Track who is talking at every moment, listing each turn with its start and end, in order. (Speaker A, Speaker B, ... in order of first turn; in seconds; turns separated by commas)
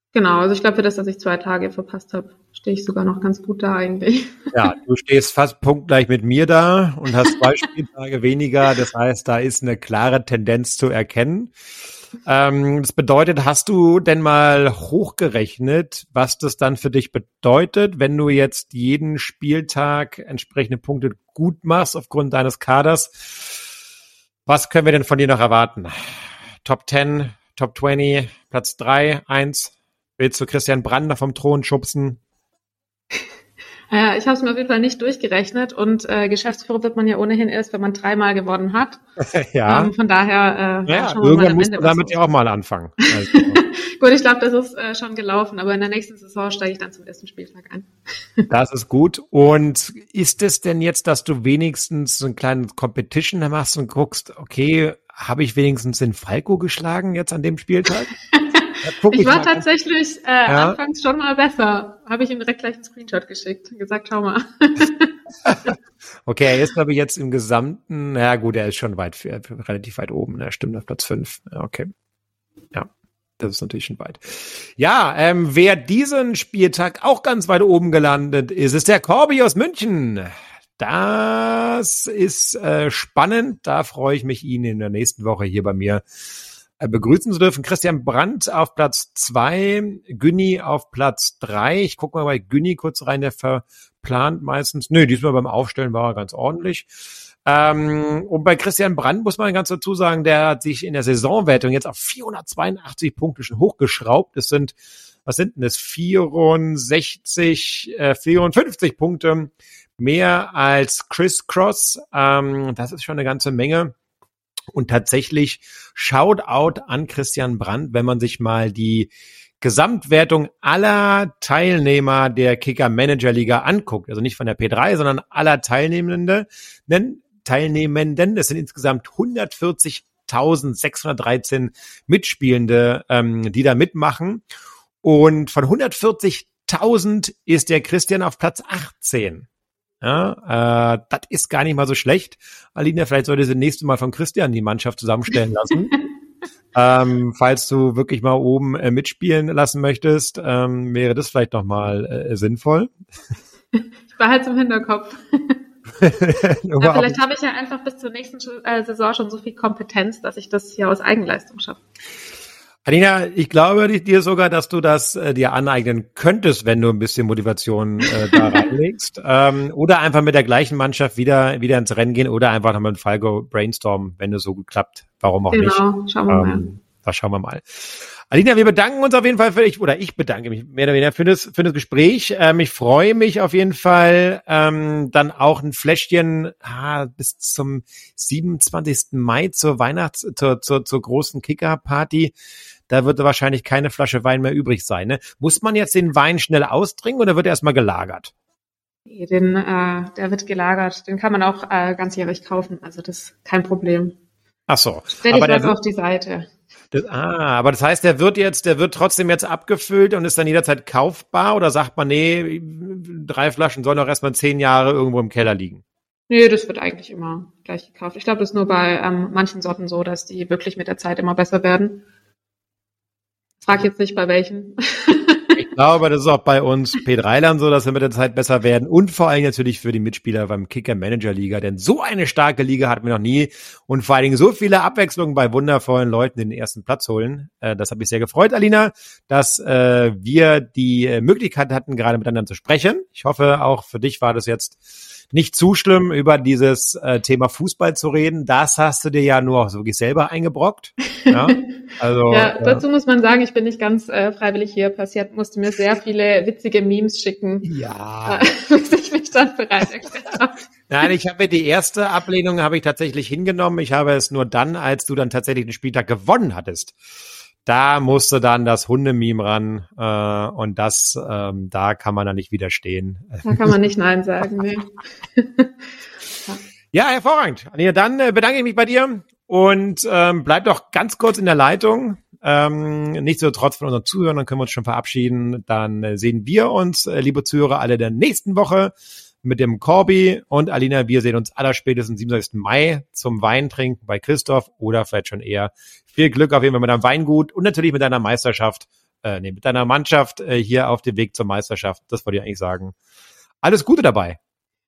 Speaker A: 0.1-4.5, Speaker B: 4.5-11.5, Speaker B: 12.2-23.6, Speaker B: 24.4-25.9, Speaker B: 26.6-32.2, Speaker A: 33.9-39.0, Speaker B: 39.2-39.9, Speaker A: 39.6-42.2, Speaker B: 40.9-43.6, Speaker A: 43.3-48.5, Speaker B: 48.5-58.1, Speaker A: 58.3-65.1, Speaker B: 58.8-59.6, Speaker B: 60.5-60.8, Speaker B: 65.4-65.7, Speaker B: 66.2-71.9, Speaker B: 73.4-86.0, Speaker B: 86.8-96.9, Speaker B: 97.4-104.7, Speaker B: 105.2-113.9, Speaker B: 114.7-119.1, Speaker B: 119.6-134.4, Speaker B: 135.0-139.5, Speaker B: 140.0-145.9, Speaker B: 146.7-152.9, Speaker A: 153.7-155.6, Speaker B: 156.0-157.2, Speaker A: 156.8-161.8, Speaker B: 162.8-192.3, Speaker A: 168.3-168.6, Speaker A: 175.5-176.7, Speaker B: 192.9-198.3, Speaker A: 199.1-204.2, Speaker B: 204.7-205.8, Speaker A: 205.2-206.5, Speaker B: 206.9-215.8, Speaker A: 216.3-222.0, Speaker A: 223.6-225.6, Speaker B: 225.6-252.8, Speaker A: 251.2-251.6, Speaker A: 252.3-257.7, Speaker B: 257.6-258.5, Speaker A: 258.2-260.6, Speaker B: 260.9-266.9, Speaker B: 267.6-273.7, Speaker A: 273.4-275.7, Speaker B: 276.9-302.9, Speaker B: 303.6-304.4